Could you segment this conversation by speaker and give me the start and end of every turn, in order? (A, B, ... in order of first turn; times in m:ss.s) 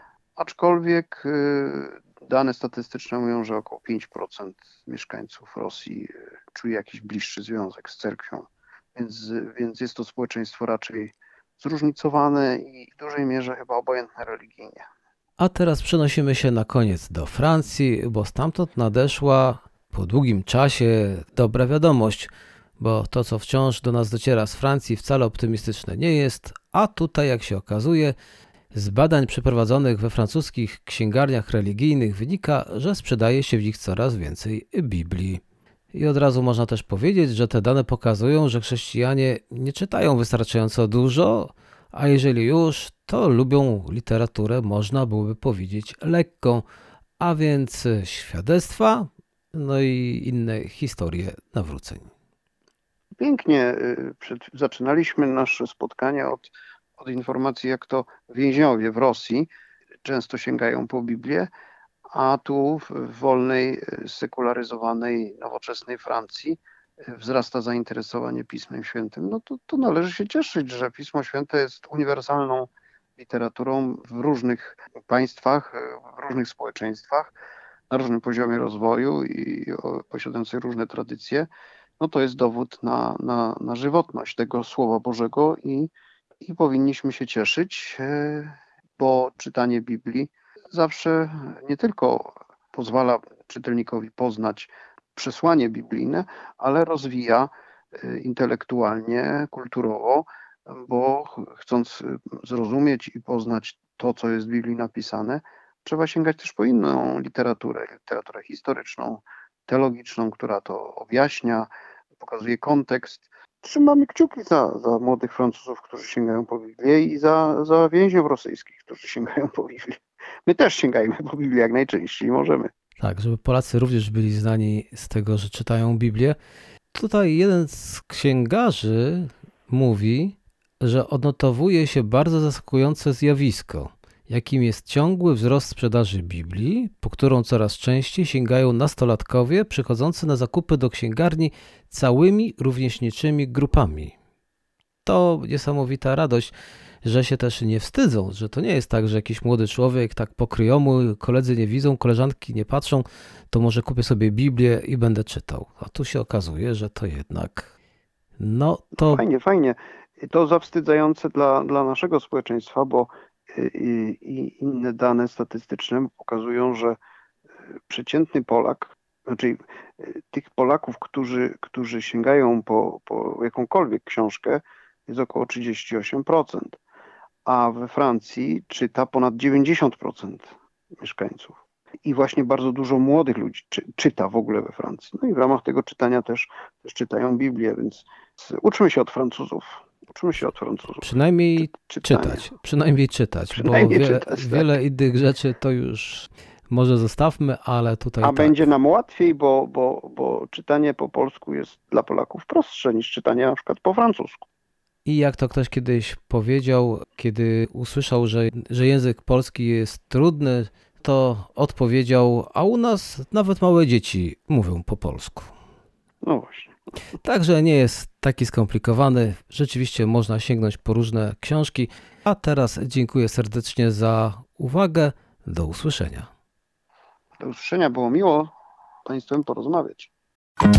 0:00.4-0:14.9 A
0:15.4-0:28.2 B
0:28.7-0:35.4 B
0:35.9-0:46.6 B
0:47.2-0:52.1 B
0:53.2-0:59.5 A
1:00.0-1:01.5 A
1:02.1-1:17.3 A
1:17.9-1:21.5 A
1:22.0-1:25.9 A
1:26.4-2:02.7 A
2:03.0-2:06.4 B
2:06.9-2:24.1 B
2:25.0-2:26.5 B
2:27.0-2:37.7 B
2:38.4-2:39.2 B
2:39.0-2:47.0 A
2:47.9-2:56.8 A
2:57.4-3:11.1 A
3:11.0-3:18.6 B
3:11.6-3:12.4 A
3:13.5-3:14.8 A
3:18.2-3:24.4 A
3:25.0-3:35.5 B
3:36.2-3:36.7 A
3:37.2-3:46.3 B
3:47.4-3:48.5 A
3:49.0-3:50.1 A